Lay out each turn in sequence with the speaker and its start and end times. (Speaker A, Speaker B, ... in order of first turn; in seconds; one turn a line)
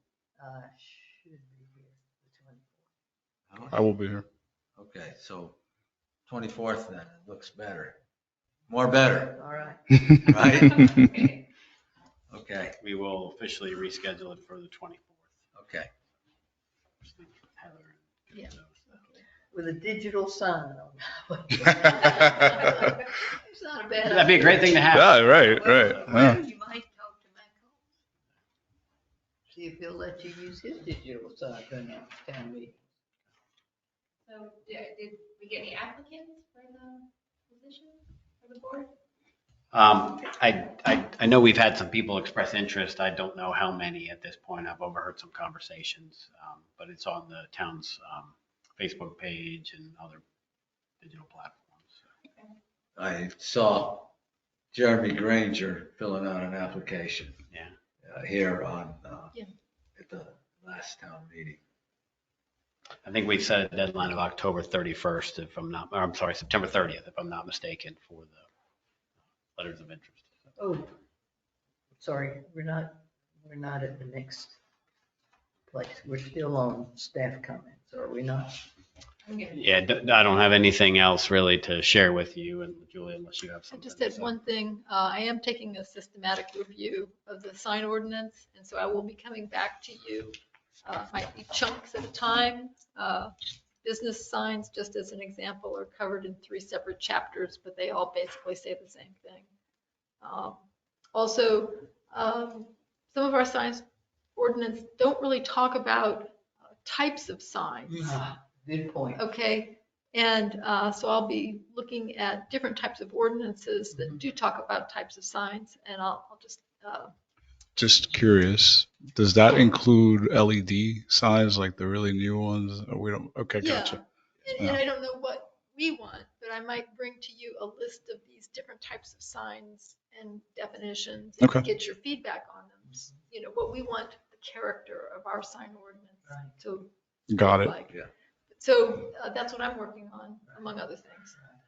Speaker A: 0.4-2.8
Speaker B: 3.5-3.8
Speaker C: 3.7-4.2
Speaker B: 4.8-5.6
Speaker B: 6.3-8.0
Speaker B: 8.7-9.4
Speaker A: 9.3-10.4
Speaker B: 10.2-10.7
Speaker D: 10.5-11.4
Speaker B: 12.3-12.8
Speaker E: 12.8-15.3
Speaker B: 15.6-15.9
Speaker E: 17.0-18.9
Speaker F: 18.3-19.2
Speaker A: 19.5-27.8
Speaker E: 24.0-26.4
Speaker C: 24.9-26.4
Speaker A: 29.5-32.8
Speaker D: 34.3-38.9
Speaker E: 39.7-50.2
Speaker E: 51.0-52.0
Speaker B: 53.0-54.1
Speaker B: 54.7-57.4
Speaker B: 58.0-59.4
Speaker B: 60.0-61.6
Speaker E: 63.0-68.4
Speaker E: 69.6-70.3
Speaker A: 70.6-70.9
Speaker A: 72.0-74.6
Speaker A: 75.7-78.6
Speaker D: 79.3-79.6
Speaker E: 79.5-84.3
Speaker F: 83.7-93.3
Speaker F: 93.8-99.5
Speaker F: 100.2-108.1
Speaker A: 107.9-109.2
Speaker F: 109.2-117.1
Speaker C: 117.8-124.0
Speaker F: 123.6-138.0
Speaker C: 131.4-131.7
Speaker C: 137.3-137.8
Speaker F: 138.6-141.4